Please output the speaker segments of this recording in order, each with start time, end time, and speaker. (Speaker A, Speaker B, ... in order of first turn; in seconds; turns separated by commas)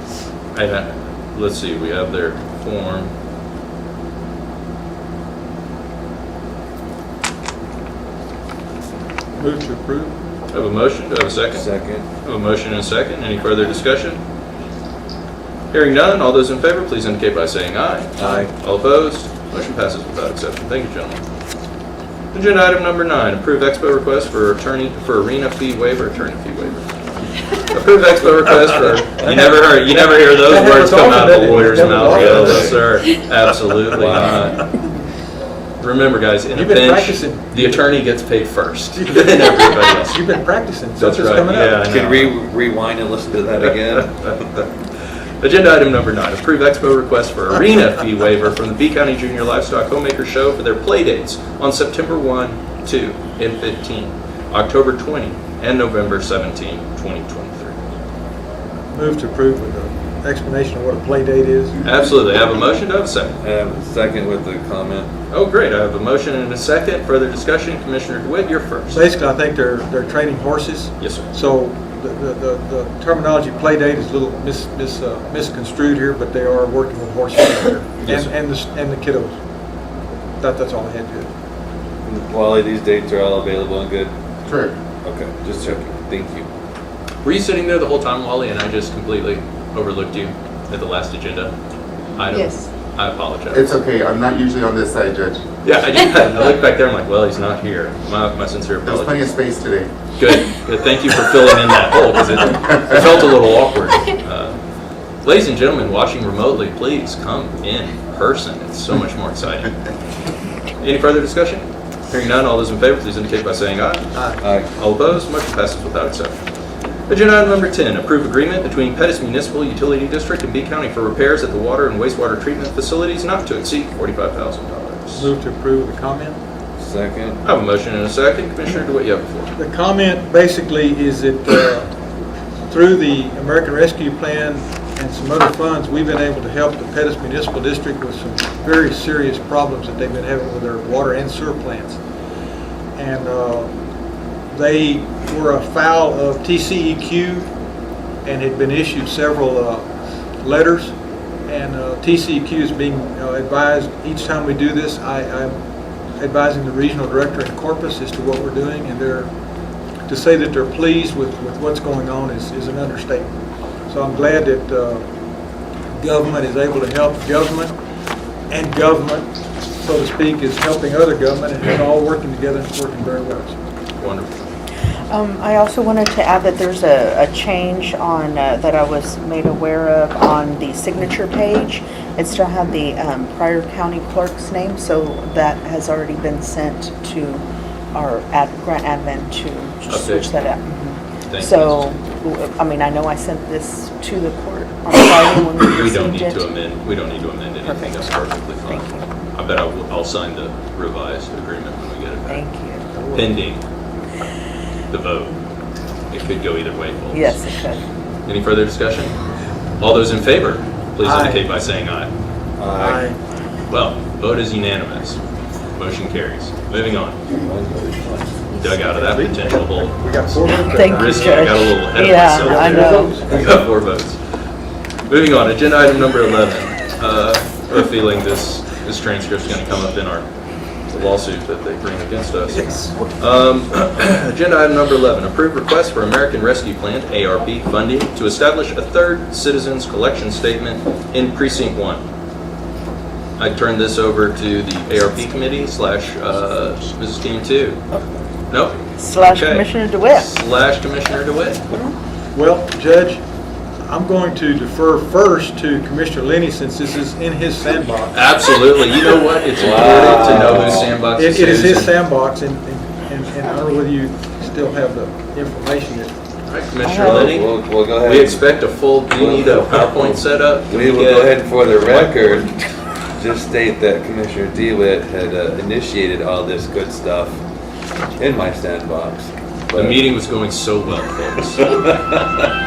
Speaker A: 0.5-3.1, Speaker B: 9.4-10.2, Speaker A: 10.5-11.7, Speaker C: 11.5-12.1, Speaker A: 12.2-14.2, Speaker A: 15.7-21.2, Speaker C: 18.2-18.5, Speaker A: 22.3-26.8, Speaker A: 27.6-34.6, Speaker B: 29.3-32.8, Speaker C: 31.9-32.7, Speaker C: 33.9-34.5, Speaker A: 35.8-40.4, Speaker B: 36.5-37.8, Speaker B: 39.0-41.8, Speaker A: 41.0-42.3, Speaker C: 41.9-44.4, Speaker A: 43.6-44.7, Speaker A: 45.4-57.8, Speaker B: 58.9-61.8, Speaker A: 61.8-63.3, Speaker C: 63.4-65.1, Speaker A: 65.3-69.0, Speaker B: 68.9-79.3, Speaker A: 71.0-71.3, Speaker A: 78.0-78.3, Speaker B: 80.4-81.3, Speaker C: 82.0-84.1, Speaker D: 84.4-84.7, Speaker C: 85.0-86.5, Speaker A: 87.2-91.5, Speaker A: 92.2-93.8, Speaker D: 93.5-95.4, Speaker A: 95.6-99.3, Speaker D: 98.8-99.9, Speaker A: 100.2-104.6, Speaker A: 105.2-109.7, Speaker A: 110.8-116.5, Speaker C: 114.4-114.7, Speaker A: 117.1-125.3, Speaker B: 125.2-126.4, Speaker C: 126.8-127.4, Speaker A: 127.4-129.5, Speaker B: 129.6-131.9, Speaker B: 132.7-142.0, Speaker B: 142.9-143.7, Speaker B: 144.5-147.5, Speaker B: 148.2-149.9, Speaker B: 150.4-150.9, Speaker B: 151.5-155.6, Speaker B: 156.2-159.3, Speaker B: 160.1-163.3, Speaker B: 163.9-165.0, Speaker B: 166.0-167.7, Speaker B: 168.5-173.6, Speaker A: 174.0-174.4, Speaker E: 175.1-196.5, Speaker A: 189.9-190.5, Speaker A: 191.3-191.9, Speaker A: 195.7-202.4, Speaker E: 197.6-198.2, Speaker E: 198.7-199.0, Speaker E: 202.3-203.2, Speaker A: 203.1-203.6, Speaker A: 204.9-205.3, Speaker A: 206.1-207.4, Speaker E: 207.1-207.8, Speaker A: 208.2-209.1, Speaker A: 209.8-212.1, Speaker B: 211.0-211.4, Speaker C: 212.6-213.0, Speaker B: 212.8-213.2, Speaker A: 213.7-215.2, Speaker A: 215.8-217.2, Speaker C: 217.3-218.4, Speaker A: 218.6-224.2, Speaker B: 219.0-221.4, Speaker E: 220.6-223.2, Speaker B: 222.4-223.4, Speaker A: 225.1-230.3, Speaker A: 230.9-242.0, Speaker A: 243.4-247.8, Speaker A: 248.5-251.6, Speaker E: 249.0-250.3, Speaker B: 252.3-253.2, Speaker B: 253.9-258.1, Speaker A: 258.1-261.9, Speaker C: 259.6-260.9, Speaker B: 261.2-266.1, Speaker A: 266.5-272.5, Speaker E: 266.8-267.3, Speaker C: 266.9-268.4, Speaker C: 269.1-272.6, Speaker C: 273.1-277.4, Speaker C: 278.2-280.0, Speaker A: 279.7-281.9, Speaker C: 281.6-282.3